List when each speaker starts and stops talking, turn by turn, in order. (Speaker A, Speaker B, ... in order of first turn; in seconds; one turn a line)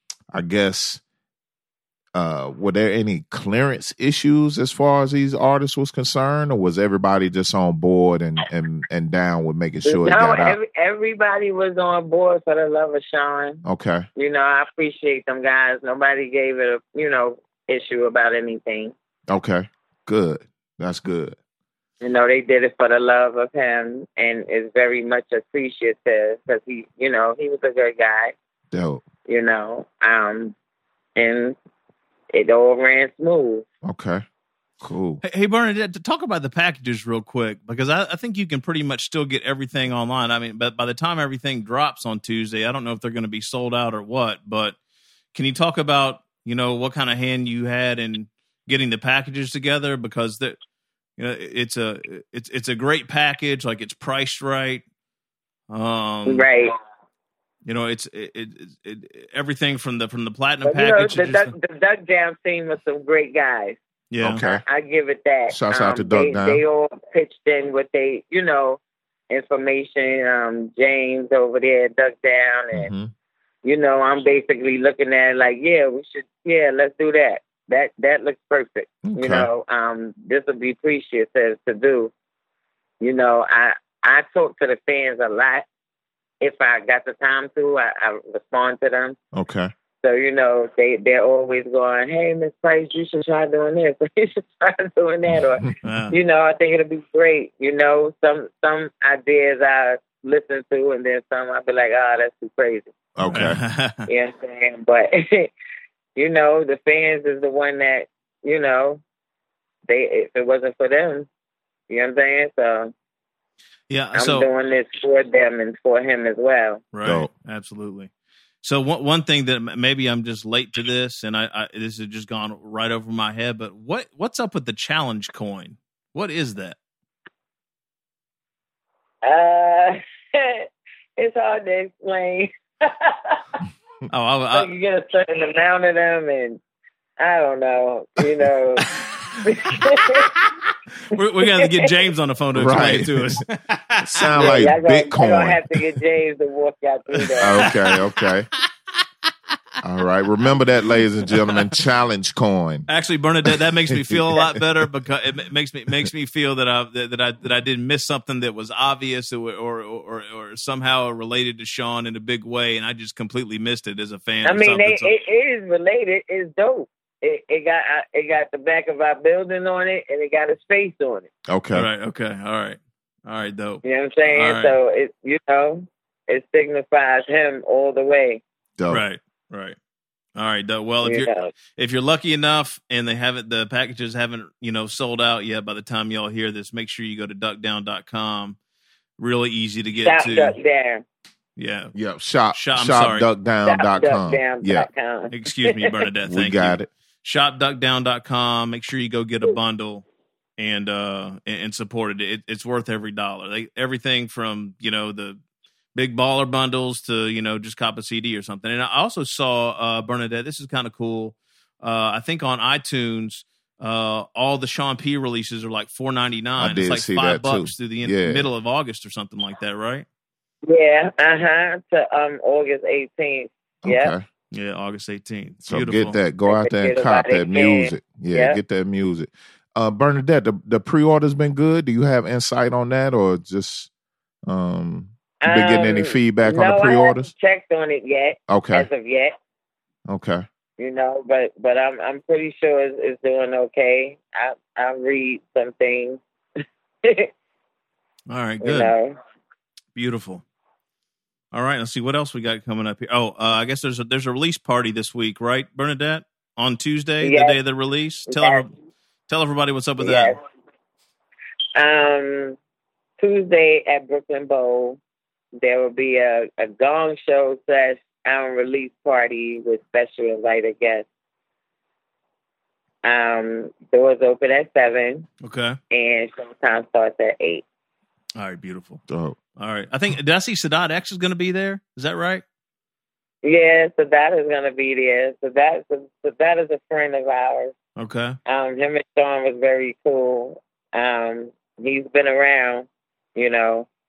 Speaker A: 0.3-1.0
Speaker A: 2.1-10.6
Speaker B: 9.8-13.6
Speaker A: 13.6-14.1
Speaker B: 14.2-18.9
Speaker A: 19.3-21.4
Speaker B: 22.0-28.3
Speaker A: 28.7-29.0
Speaker B: 29.2-30.5
Speaker B: 31.1-31.6
Speaker B: 32.3-33.6
Speaker A: 33.8-34.2
Speaker A: 34.8-35.2
Speaker C: 35.2-44.8
Speaker C: 45.3-50.6
Speaker C: 51.2-54.8
Speaker C: 55.7-56.5
Speaker B: 56.3-56.7
Speaker C: 57.6-61.5
Speaker B: 60.6-63.8
Speaker C: 64.1-64.4
Speaker A: 64.2-64.6
Speaker B: 64.4-72.9
Speaker A: 65.5-66.6
Speaker A: 72.7-73.1
Speaker B: 73.6-82.1
Speaker A: 79.0-79.5
Speaker B: 83.0-85.6
Speaker B: 86.4-89.2
Speaker A: 89.3-89.7
Speaker B: 90.0-102.9
Speaker A: 95.3-95.7
Speaker C: 95.8-96.1
Speaker A: 103.2-103.6
Speaker C: 103.2-104.1
Speaker B: 104.1-105.5
Speaker B: 106.2-109.0
Speaker B: 109.9-111.3
Speaker B: 111.9-112.9
Speaker C: 113.9-114.5
Speaker B: 114.1-116.8
Speaker C: 116.9-118.1
Speaker A: 117.0-117.3
Speaker C: 118.6-126.8
Speaker B: 129.2-133.4
Speaker C: 134.1-134.7
Speaker B: 134.5-136.6
Speaker B: 137.2-138.9
Speaker B: 139.4-140.3
Speaker C: 141.1-144.6
Speaker B: 141.4-141.9
Speaker A: 142.5-143.4
Speaker A: 144.0-145.8
Speaker B: 144.3-147.7
Speaker C: 147.2-148.2
Speaker A: 147.4-148.5
Speaker A: 149.8-152.9
Speaker C: 151.3-151.8
Speaker C: 152.9-165.1
Speaker A: 153.4-154.6
Speaker B: 164.4-171.3
Speaker A: 171.5-171.9
Speaker C: 171.7-174.8
Speaker B: 173.8-178.4
Speaker A: 178.8-179.0
Speaker C: 178.9-179.8
Speaker C: 180.3-188.6
Speaker B: 181.0-181.5
Speaker C: 189.2-190.6
Speaker B: 190.0-191.0
Speaker C: 191.6-191.9
Speaker A: 191.9-194.9
Speaker C: 192.5-193.3
Speaker B: 193.7-195.9
Speaker C: 195.3-200.0
Speaker A: 196.2-196.9
Speaker C: 200.6-205.4
Speaker C: 205.9-220.1
Speaker A: 216.6-218.5
Speaker B: 220.7-224.1
Speaker A: 223.8-224.2
Speaker C: 224.5-226.2
Speaker A: 225.7-233.9
Speaker B: 226.5-228.6
Speaker A: 234.5-237.3
Speaker B: 235.4-239.3
Speaker A: 238.5-238.9
Speaker A: 240.1-240.4
Speaker B: 240.8-246.2
Speaker B: 247.0-247.3
Speaker C: 248.3-248.9
Speaker B: 248.6-249.1
Speaker C: 249.9-250.4
Speaker C: 251.5-258.7
Speaker B: 257.2-257.6
Speaker B: 258.3-258.6
Speaker C: 259.3-260.4
Speaker B: 260.0-260.4
Speaker B: 261.8-262.6
Speaker B: 263.2-265.0
Speaker B: 265.6-271.1
Speaker B: 273.0-275.3
Speaker C: 275.4-275.8
Speaker B: 275.9-277.6
Speaker C: 278.4-279.0
Speaker A: 279.1-279.4
Speaker C: 279.6-282.4
Speaker B: 283.4-287.7
Speaker C: 288.0-288.4
Speaker B: 288.4-293.9